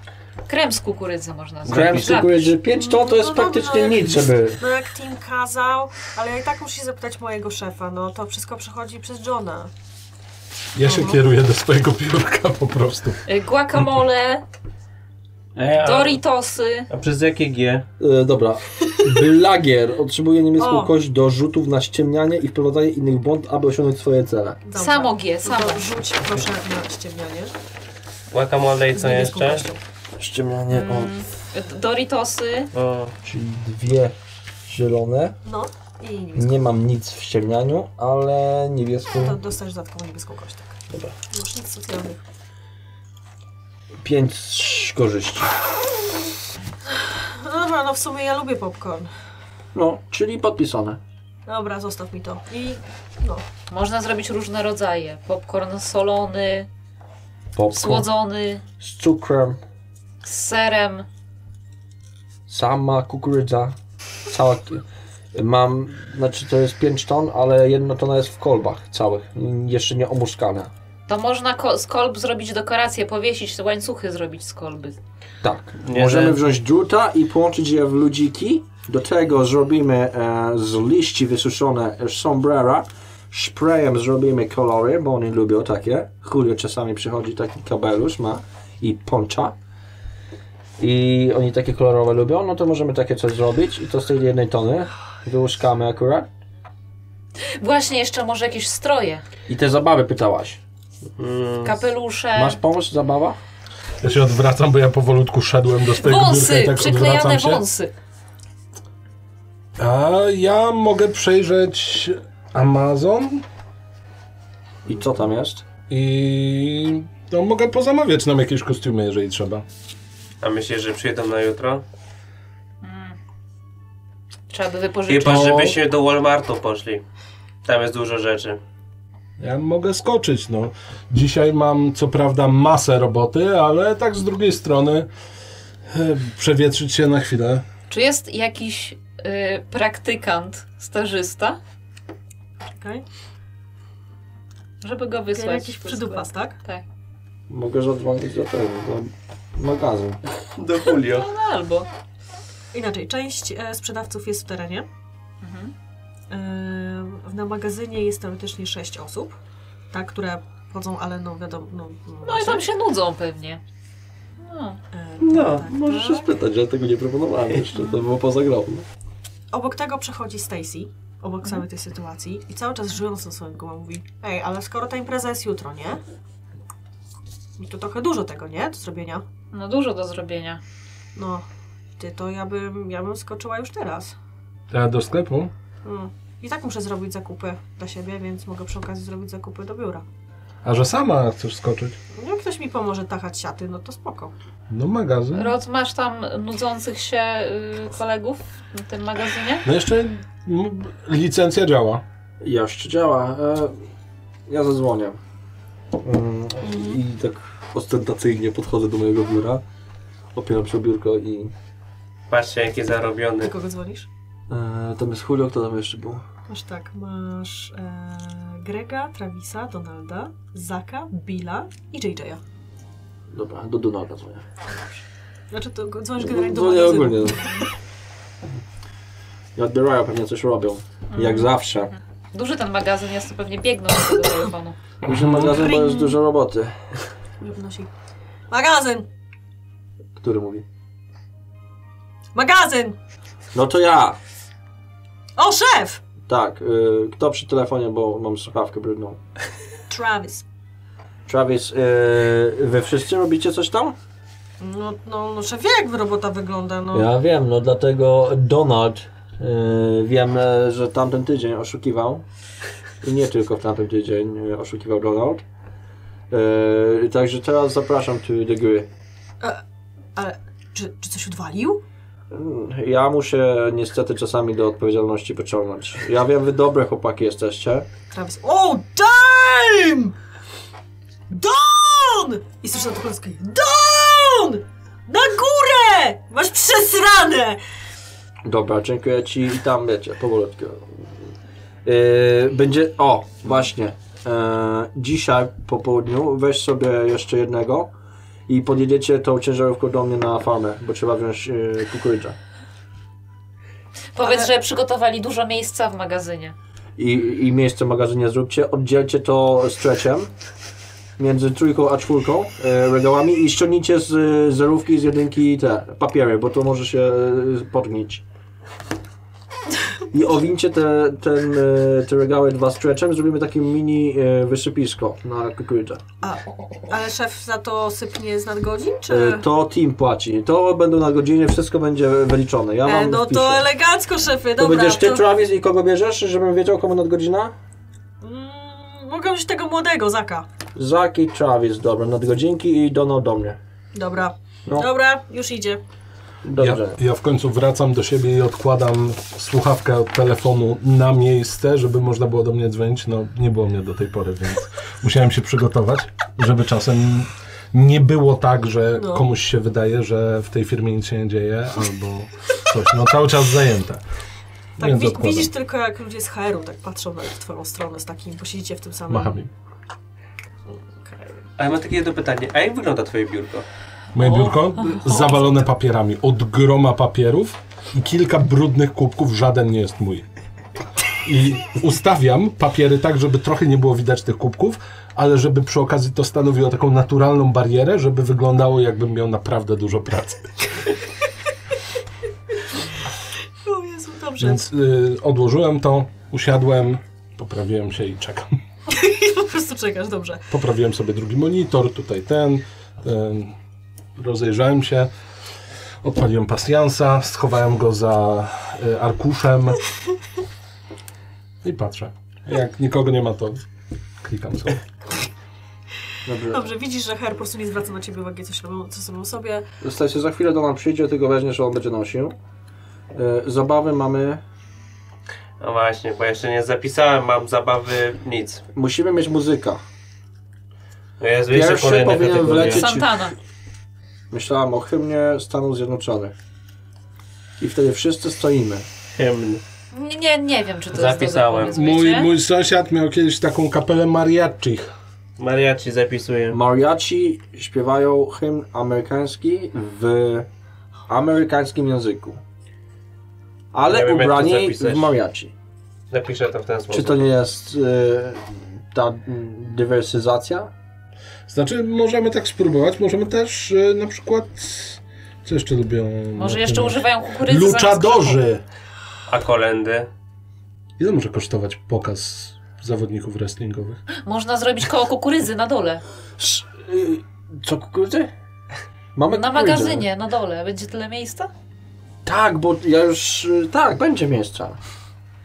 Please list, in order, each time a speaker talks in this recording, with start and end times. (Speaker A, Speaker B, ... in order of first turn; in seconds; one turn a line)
Speaker A: 0.5-2.5
Speaker B: 1.6-4.6
Speaker C: 2.7-9.7
Speaker D: 10.8-13.2
Speaker C: 10.8-11.2
Speaker A: 13.3-14.4
Speaker E: 15.6-16.2
Speaker A: 15.8-16.9
Speaker E: 16.9-17.9
Speaker B: 18.0-24.6
Speaker C: 20.6-20.9
Speaker C: 24.6-27.5
Speaker A: 24.8-25.9
Speaker E: 28.3-29.7
Speaker C: 28.9-29.8
Speaker B: 30.2-31.1
Speaker A: 30.7-32.7
Speaker E: 32.7-33.1
Speaker B: 33.2-35.4
Speaker C: 35.5-36.7
Speaker B: 36.4-39.4
Speaker C: 39.1-40.8
Speaker C: 41.3-42.2
Speaker B: 44.0-45.5
Speaker C: 47.2-49.1
Speaker B: 49.7-51.0
Speaker C: 51.5-53.4
Speaker A: 53.7-56.7
Speaker B: 57.5-58.1
Speaker A: 57.7-58.6
Speaker B: 58.8-59.6
Speaker A: 60.2-61.1
Speaker B: 62.5-63.8
Speaker B: 64.3-70.7
Speaker A: 71.1-75.0
Speaker B: 75.4-89.5
Speaker E: 75.8-76.4
Speaker B: 90.8-96.3
Speaker A: 97.6-99.2
Speaker B: 99.5-100.6
Speaker E: 101.2-101.8
Speaker A: 101.6-102.6
Speaker B: 102.3-103.4
Speaker D: 104.0-107.6
Speaker A: 106.0-107.9
Speaker D: 109.8-113.4
Speaker B: 114.9-115.6
Speaker D: 115.9-119.7
Speaker E: 120.4-121.8
Speaker A: 122.8-123.2
Speaker A: 124.5-125.7
Speaker E: 125.1-127.0
Speaker B: 125.2-125.8
Speaker E: 127.7-128.6
Speaker D: 129.4-135.1
Speaker D: 135.9-137.7
Speaker A: 137.9-141.6
Speaker C: 142.7-143.0
Speaker A: 144.8-146.8
Speaker C: 145.3-146.6
Speaker B: 147.5-150.2
Speaker E: 150.6-151.3
Speaker A: 151.0-151.9
Speaker C: 152.7-154.9
Speaker A: 155.4-155.7
Speaker C: 156.3-159.4
Speaker C: 159.9-162.7
Speaker A: 162.2-163.6
Speaker A: 164.4-164.8
Speaker C: 164.9-166.3
Speaker B: 165.2-168.9
Speaker C: 169.5-176.0
Speaker C: 177.6-179.2
Speaker A: 179.5-180.6
Speaker C: 181.2-181.5
Speaker C: 182.0-184.2
Speaker D: 184.7-185.5
Speaker C: 185.8-190.1
Speaker D: 190.6-192.0
Speaker C: 192.2-194.3
Speaker D: 194.7-195.6
Speaker A: 195.3-199.7
Speaker D: 199.6-202.0
Speaker B: 202.4-203.7
Speaker B: 204.5-205.2
Speaker B: 206.0-209.6
Speaker C: 206.6-207.0
Speaker B: 210.3-211.5
Speaker E: 212.3-213.5
Speaker C: 213.4-214.1
Speaker B: 214.5-216.2
Speaker C: 216.5-222.4
Speaker B: 223.3-224.8
Speaker C: 225.5-227.6
Speaker B: 226.2-227.5
Speaker B: 229.6-231.9
Speaker A: 231.1-231.5
Speaker A: 232.3-234.8
Speaker B: 235.0-236.8
Speaker D: 235.1-235.7
Speaker C: 235.5-236.2
Speaker C: 237.4-237.9
Speaker C: 238.5-239.1
Speaker B: 240.2-240.7
Speaker C: 242.3-243.0
Speaker B: 243.5-244.2
Speaker C: 245.4-246.0
Speaker B: 246.3-249.2
Speaker C: 249.9-250.4
Speaker B: 251.3-254.0
Speaker C: 254.6-257.1
Speaker B: 256.9-262.2
Speaker B: 263.0-265.4
Speaker B: 266.3-268.9
Speaker C: 270.2-271.8
Speaker B: 272.3-277.9
Speaker C: 278.1-280.1
Speaker C: 281.3-287.6
Speaker B: 288.4-291.1
Speaker B: 291.9-297.9
Speaker B: 298.5-302.4
Speaker A: 304.1-306.6
Speaker B: 307.0-310.3
Speaker B: 311.2-318.2
Speaker B: 320.1-326.0
Speaker C: 326.2-329.4
Speaker B: 329.1-333.7
Speaker C: 332.9-335.3
Speaker B: 334.6-337.6
Speaker C: 338.2-340.5
Speaker B: 340.8-343.6
Speaker C: 343.9-345.8
Speaker B: 346.4-347.0
Speaker D: 346.6-364.0
Speaker C: 358.9-359.3
Speaker D: 364.8-365.5
Speaker C: 364.8-369.4
Speaker D: 369.1-369.5
Speaker C: 370.7-371.4
Speaker E: 371.6-373.7
Speaker D: 374.1-380.3
Speaker A: 374.2-375.5
Speaker D: 381.2-390.9
Speaker C: 393.6-394.7
Speaker D: 394.4-398.6
Speaker C: 398.9-400.4
Speaker D: 400.5-403.6
Speaker D: 404.2-405.1
Speaker D: 406.0-409.8
Speaker D: 411.6-413.6
Speaker D: 414.2-414.8
Speaker B: 416.3-416.7
Speaker C: 416.5-419.7
Speaker B: 419.8-422.4
Speaker B: 423.1-424.4
Speaker E: 425.6-428.6
Speaker B: 428.7-429.8
Speaker E: 431.2-432.9
Speaker B: 431.5-433.2
Speaker A: 432.6-433.4
Speaker B: 434.3-436.4
Speaker B: 437.6-438.9
Speaker E: 439.1-439.6
Speaker A: 439.9-442.3
Speaker E: 440.9-441.8
Speaker D: 441.7-444.9
Speaker E: 445.4-446.6
Speaker B: 446.5-450.5
Speaker B: 451.1-452.4
Speaker B: 453.7-455.5
Speaker E: 453.9-455.1
Speaker E: 456.1-457.3
Speaker B: 456.9-460.7
Speaker D: 461.5-468.6
Speaker A: 466.4-468.4
Speaker E: 469.3-470.1
Speaker D: 471.0-474.0
Speaker A: 474.1-476.0
Speaker B: 476.4-478.3
Speaker B: 479.1-480.1
Speaker A: 479.3-481.5
Speaker B: 482.2-484.8